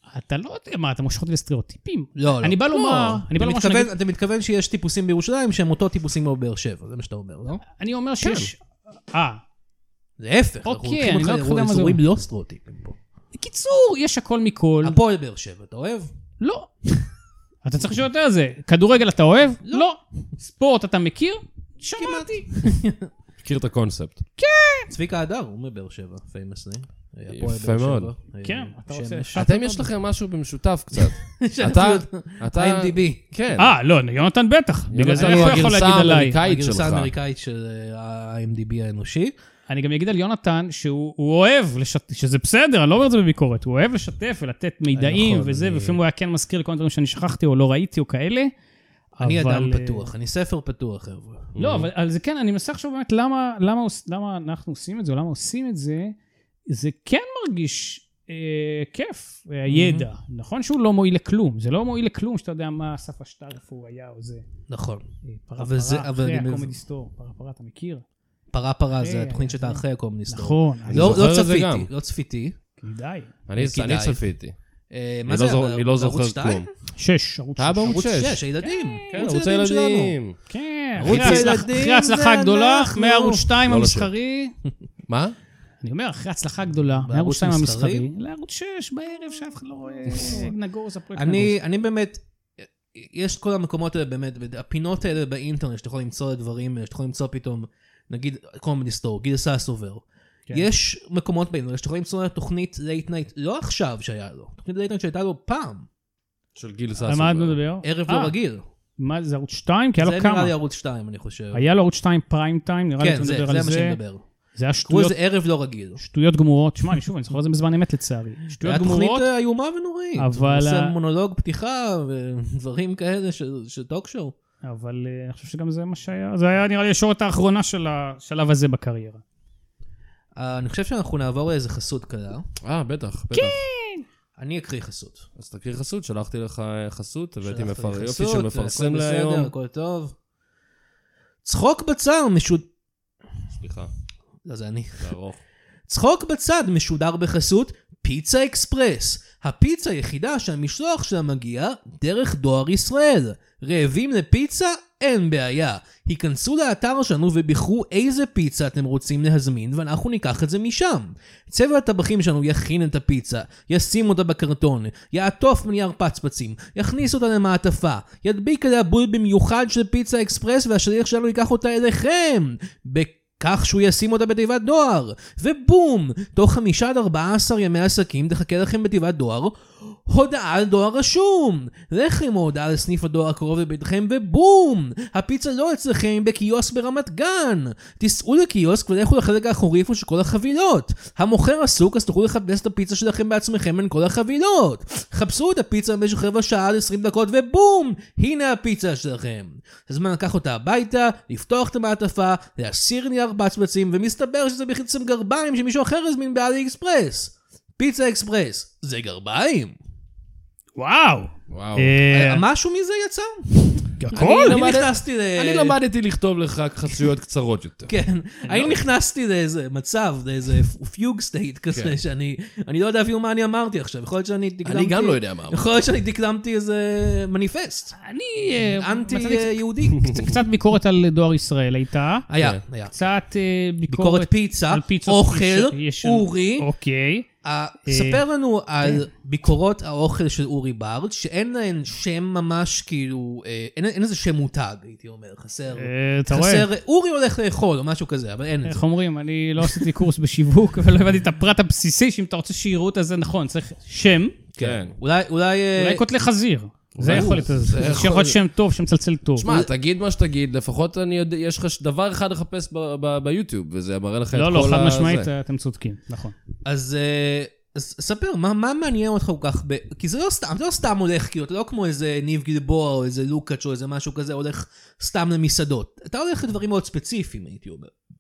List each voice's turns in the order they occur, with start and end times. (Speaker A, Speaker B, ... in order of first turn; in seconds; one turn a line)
Speaker A: 0.1-3.9
Speaker B: 2.2-7.6
Speaker A: 7.7-8.6
Speaker C: 8.2-8.5
Speaker A: 9.1-9.4
Speaker B: 10.2-13.0
Speaker A: 10.7-12.0
Speaker A: 13.3-15.0
Speaker B: 14.8-16.1
Speaker A: 16.4-16.7
Speaker A: 17.6-22.5
Speaker B: 22.0-23.1
Speaker C: 23.4-24.2
Speaker A: 24.4-24.9
Speaker B: 24.9-29.4
Speaker C: 27.3-28.1
Speaker A: 28.4-29.9
Speaker C: 29.4-33.8
Speaker B: 31.0-33.2
Speaker A: 33.6-36.4
Speaker C: 34.9-37.1
Speaker B: 35.1-35.7
Speaker B: 36.4-39.3
Speaker A: 39.7-48.5
Speaker C: 45.0-45.9
Speaker A: 49.1-50.1
Speaker B: 49.2-51.5
Speaker C: 51.5-51.9
Speaker A: 51.6-56.1
Speaker A: 56.7-64.5
Speaker B: 59.7-60.1
Speaker B: 64.7-65.0
Speaker A: 65.3-68.0
Speaker B: 65.6-66.7
Speaker B: 68.5-72.6
Speaker A: 69.0-71.2
Speaker C: 70.9-71.9
Speaker A: 72.8-73.3
Speaker C: 73.5-74.5
Speaker B: 73.6-74.2
Speaker B: 74.9-76.7
Speaker C: 75.3-76.7
Speaker A: 77.0-78.0
Speaker C: 77.6-78.4
Speaker B: 77.9-80.2
Speaker A: 78.6-79.1
Speaker C: 79.1-80.4
Speaker A: 80.5-84.5
Speaker B: 81.0-83.5
Speaker C: 81.0-81.5
Speaker C: 83.7-84.1
Speaker C: 85.1-85.4
Speaker A: 85.8-91.6
Speaker B: 87.0-88.1
Speaker B: 90.1-90.5
Speaker B: 91.2-92.2
Speaker B: 92.9-105.9
Speaker C: 106.5-107.6
Speaker A: 107.0-108.3
Speaker B: 107.8-108.6
Speaker A: 109.0-110.5
Speaker B: 110.0-111.7
Speaker A: 111.5-114.0
Speaker B: 113.0-114.2
Speaker A: 114.6-115.2
Speaker B: 114.9-116.0
Speaker A: 116.0-119.3
Speaker B: 118.6-124.3
Speaker A: 120.2-120.9
Speaker A: 124.6-129.2
Speaker B: 130.4-132.5
Speaker C: 132.6-133.6
Speaker A: 133.3-134.1
Speaker B: 134.4-135.3
Speaker C: 135.4-139.5
Speaker B: 137.4-140.1
Speaker B: 141.4-142.7
Speaker C: 143.5-143.9
Speaker B: 144.4-145.1
Speaker C: 145.0-145.4
Speaker B: 145.9-209.7
Speaker A: 210.8-212.4
Speaker C: 211.5-212.0
Speaker B: 212.1-215.8
Speaker A: 214.0-214.6
Speaker C: 214.1-217.9
Speaker B: 217.9-227.9
Speaker C: 221.7-222.0
Speaker C: 224.7-225.6
Speaker A: 228.0-232.2
Speaker B: 228.6-230.3
Speaker B: 232.3-233.0
Speaker A: 232.9-237.3
Speaker B: 233.9-236.7
Speaker B: 237.4-248.9
Speaker A: 237.9-238.2
Speaker A: 245.8-246.7
Speaker A: 248.7-254.4
Speaker B: 254.6-256.0
Speaker C: 254.6-254.9
Speaker A: 255.8-259.5
Speaker C: 256.9-258.4
Speaker B: 257.1-257.4
Speaker C: 259.4-265.3
Speaker A: 264.3-266.4
Speaker B: 266.6-277.9